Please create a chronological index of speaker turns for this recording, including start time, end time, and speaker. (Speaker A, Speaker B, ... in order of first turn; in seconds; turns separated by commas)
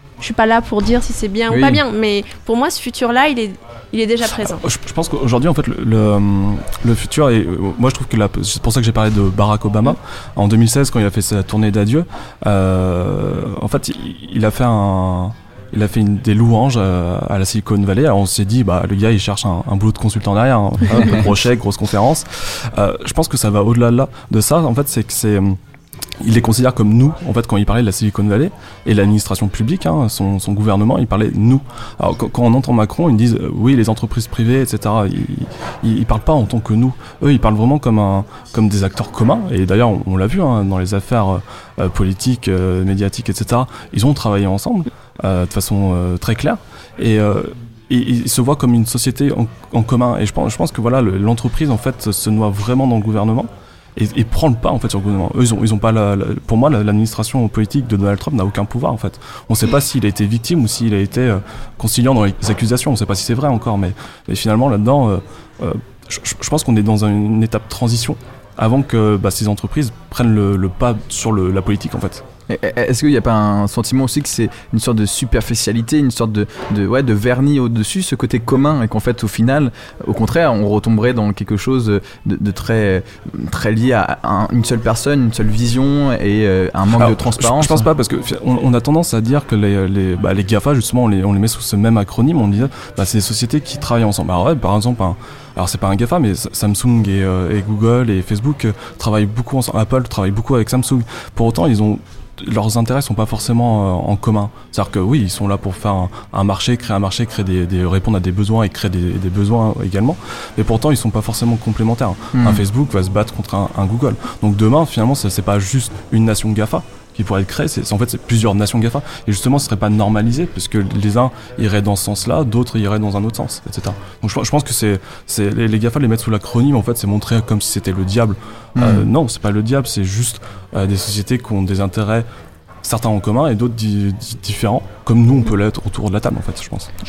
Speaker A: 0.2-4.6, Speaker B: 1.5-1.8, Speaker C: 4.4-25.6, Speaker C: 26.2-72.2, Speaker B: 72.5-87.9, Speaker C: 86.9-132.3, Speaker B: 112.3-112.6, Speaker B: 128.8-129.1, Speaker C: 132.8-136.9